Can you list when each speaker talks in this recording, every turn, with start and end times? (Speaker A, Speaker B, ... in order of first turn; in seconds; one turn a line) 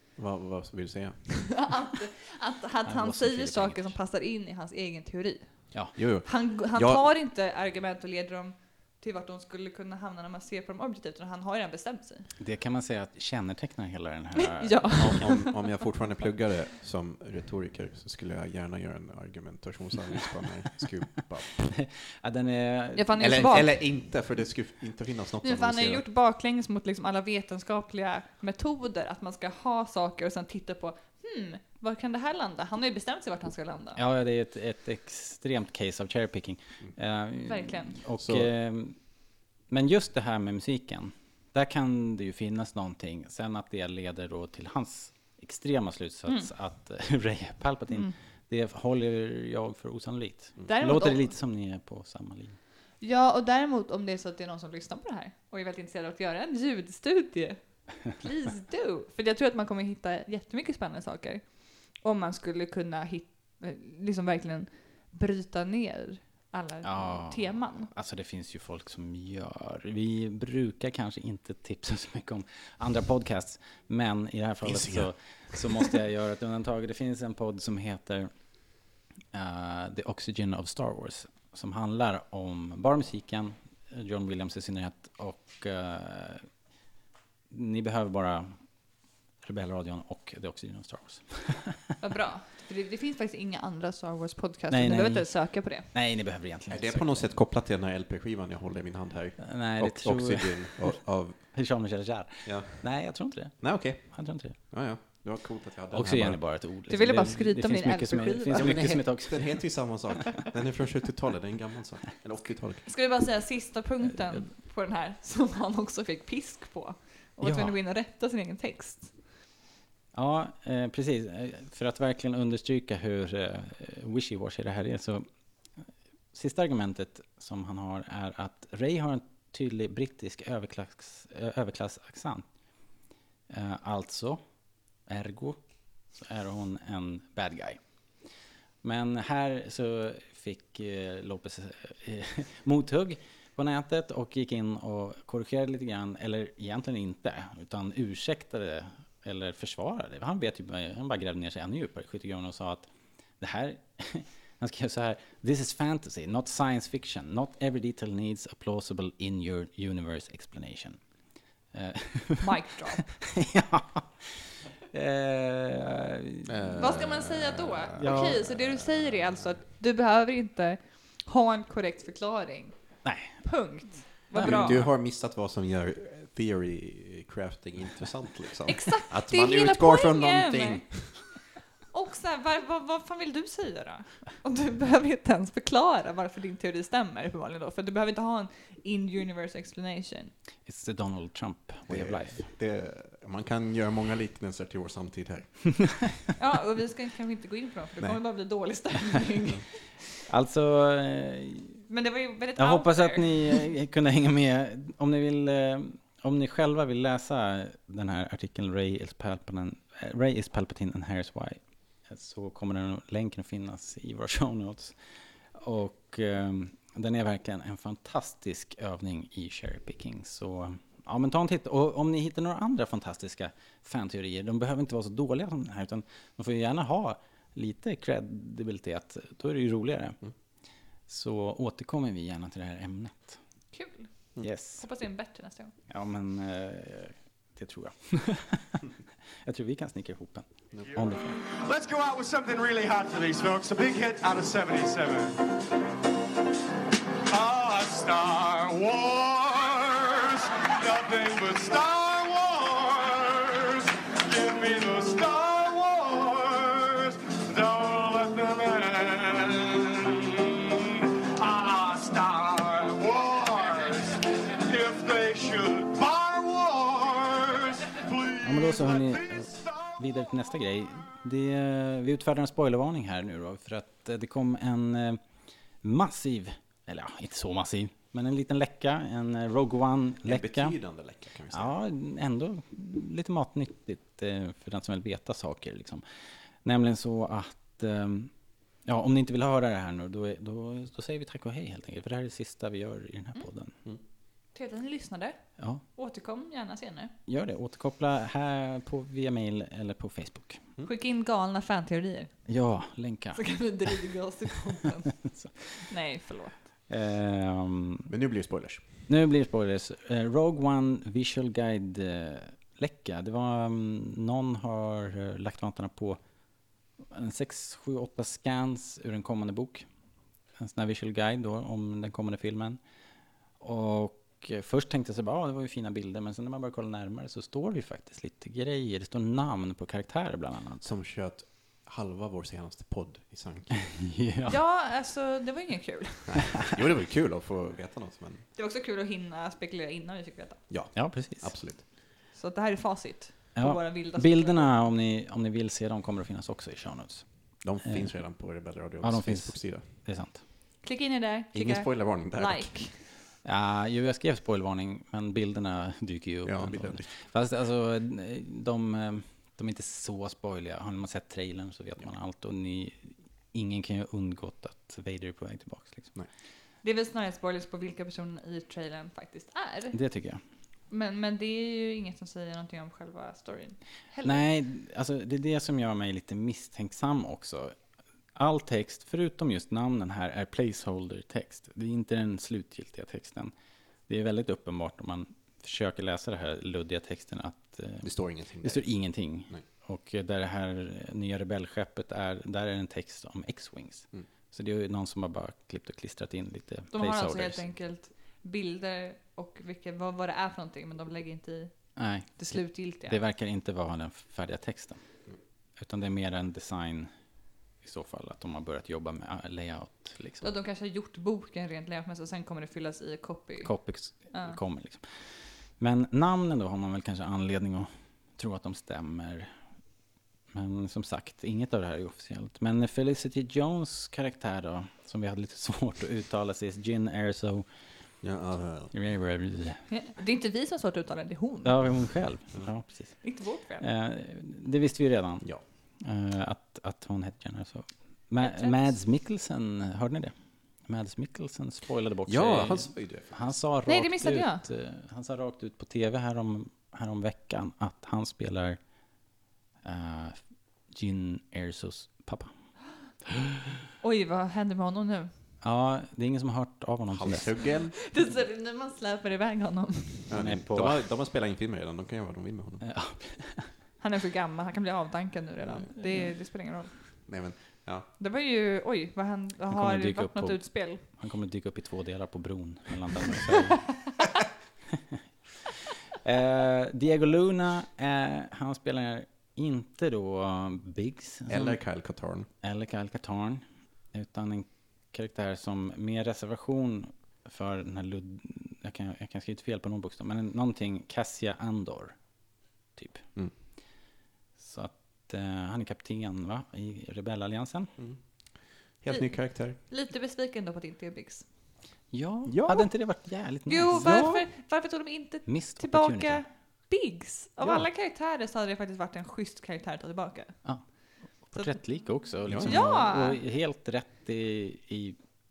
Speaker A: 0.2-1.3
Speaker B: 1.4-12.3
Speaker C: 2.9-3.9
Speaker A: 6.0-7.0
Speaker C: 12.4-15.2
Speaker B: 14.4-15.6
Speaker A: 15.0-21.7
Speaker C: 21.7-23.6
Speaker B: 22.9-23.8
Speaker A: 23.2-26.0
Speaker B: 25.4-34.0
Speaker C: 34.0-39.0
Speaker B: 37.5-38.0
Speaker A: 38.2-38.5
Speaker C: 39.7-52.6
Speaker B: 50.7-51.3
Speaker B: 53.0-67.9
Speaker C: 66.8-78.3
Speaker A: 74.6-75.6
Speaker C: 79.3-86.5
Speaker C: 87.5-88.6
Speaker C: 89.4-91.9
Speaker B: 92.0-95.9
Speaker C: 94.7-97.3
Speaker A: 96.7-101.5
Speaker C: 99.4-104.5
Speaker A: 102.4-102.9
Speaker A: 103.6-106.4
Speaker C: 105.9-109.7
Speaker B: 106.9-109.0
Speaker A: 108.5-112.9
Speaker B: 112.9-119.2
Speaker C: 117.4-117.7
Speaker C: 120.1-125.3
Speaker C: 126.3-132.5
Speaker C: 133.5-134.4
Speaker C: 135.1-135.6
Speaker C: 136.2-137.8
Speaker C: 138.8-152.9
Speaker C: 153.4-161.0
Speaker C: 161.7-166.8
Speaker B: 162.4-163.1
Speaker A: 166.5-168.6
Speaker B: 166.8-172.8
Speaker C: 168.0-168.4
Speaker C: 173.0-173.4
Speaker B: 173.4-174.8
Speaker C: 174.3-174.9
Speaker A: 174.4-181.2
Speaker B: 178.7-180.8
Speaker B: 181.9-190.3
Speaker C: 190.7-192.5
Speaker A: 191.9-196.0
Speaker B: 196.3-199.7
Speaker C: 200.3-201.8
Speaker B: 201.9-203.6
Speaker C: 202.6-214.9
Speaker C: 215.5-230.2
Speaker C: 231.1-233.4
Speaker B: 233.7-234.1
Speaker C: 234.4-234.8
Speaker B: 234.8-235.7
Speaker C: 235.9-238.8
Speaker C: 239.4-241.4
Speaker D: 241.4-245.4
Speaker D: 247.3-270.2
Speaker C: 268.4-275.2
Speaker C: 275.8-280.8
Speaker A: 280.2-281.7
Speaker C: 281.5-286.0
Speaker C: 286.6-288.3
Speaker C: 288.9-293.7
Speaker B: 294.5-295.4
Speaker B: 295.9-297.1
Speaker C: 297.3-300.6
Speaker B: 300.8-302.3
Speaker C: 302.5-303.4
Speaker B: 303.4-306.6
Speaker C: 305.2-305.6
Speaker C: 306.9-308.1
Speaker A: 308.1-308.9
Speaker C: 309.1-316.2
Speaker C: 317.1-319.9
Speaker C: 320.6-322.8
Speaker C: 323.6-330.8
Speaker A: 330.8-333.9
Speaker C: 333.9-334.6
Speaker B: 334.5-336.5
Speaker A: 336.3-338.4
Speaker B: 338.6-340.6
Speaker A: 340.7-341.8
Speaker C: 340.9-341.5
Speaker B: 342.3-344.7
Speaker C: 343.6-347.3
Speaker A: 347.6-349.9
Speaker C: 347.8-348.1
Speaker C: 349.0-350.4
Speaker B: 350.8-353.0
Speaker A: 351.5-352.8
Speaker C: 353.4-366.1
Speaker A: 356.4-357.1
Speaker B: 366.8-370.0
Speaker C: 369.9-370.4
Speaker B: 370.9-374.4
Speaker C: 374.2-377.7
Speaker C: 378.3-383.5
Speaker C: 384.1-388.1
Speaker A: 388.0-388.9
Speaker C: 388.6-397.6
Speaker B: 396.9-401.7
Speaker C: 402.0-405.0
Speaker B: 402.4-403.2
Speaker C: 405.8-407.1
Speaker C: 407.8-410.5
Speaker B: 410.4-414.6
Speaker C: 413.6-419.5
Speaker C: 420.5-427.6
Speaker A: 428.2-428.9
Speaker C: 428.9-429.8
Speaker B: 429.9-432.1
Speaker C: 431.6-433.2
Speaker B: 433.2-433.8
Speaker C: 433.8-435.4
Speaker C: 436.0-440.3
Speaker B: 438.4-438.9
Speaker C: 440.9-448.8
Speaker A: 442.2-443.6
Speaker B: 443.9-444.6
Speaker C: 449.8-450.4
Speaker C: 450.9-452.5
Speaker B: 454.0-455.3
Speaker C: 455.6-457.6
Speaker A: 457.1-458.0
Speaker B: 458.0-460.3
Speaker A: 460.3-462.8
Speaker C: 460.3-461.0
Speaker C: 462.8-463.7
Speaker B: 464.0-466.9
Speaker A: 467.2-468.1
Speaker B: 468.2-471.0
Speaker C: 469.7-473.8
Speaker C: 476.2-481.8
Speaker A: 481.5-482.5
Speaker C: 482.6-492.2
Speaker C: 492.9-493.2
Speaker C: 494.6-497.9
Speaker A: 498.0-499.8
Speaker B: 499.1-501.4
Speaker C: 502.1-504.4
Speaker A: 502.5-502.9
Speaker B: 503.7-510.6
Speaker A: 504.0-504.4
Speaker C: 505.5-506.4
Speaker C: 511.4-515.2
Speaker B: 511.6-511.8
Speaker A: 512.5-512.8
Speaker B: 512.6-513.4